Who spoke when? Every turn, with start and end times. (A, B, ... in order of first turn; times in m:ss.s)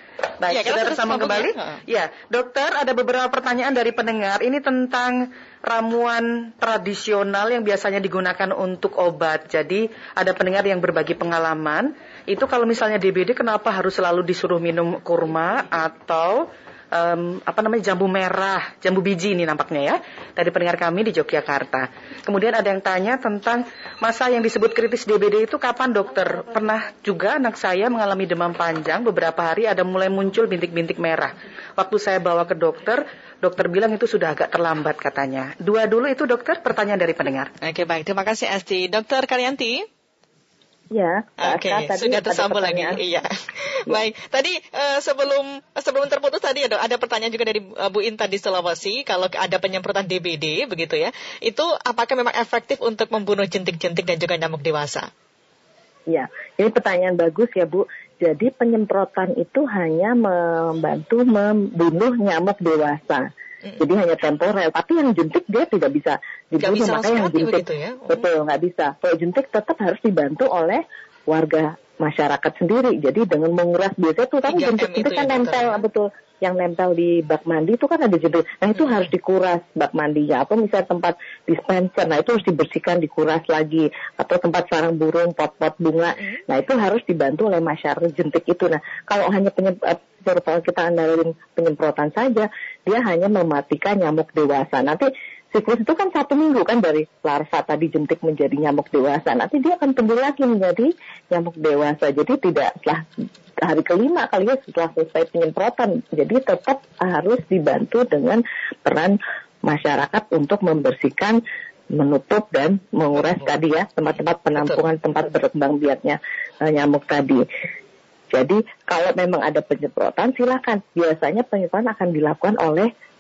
0:00.4-0:37.5 A
0:00.5-0:01.8 B
0:37.6-0:39.9 B
0:40.9-0:43.0 C
0:41.4-0:55.1 B
0:56.1-1:03.3 C
1:03.8-1:43.1 C
1:06.6-1:08.2 B
1:14.5-1:15.8 B
1:43.6-1:51.4 C
1:51.9-1:57.4 C
1:58.3-2:02.9 C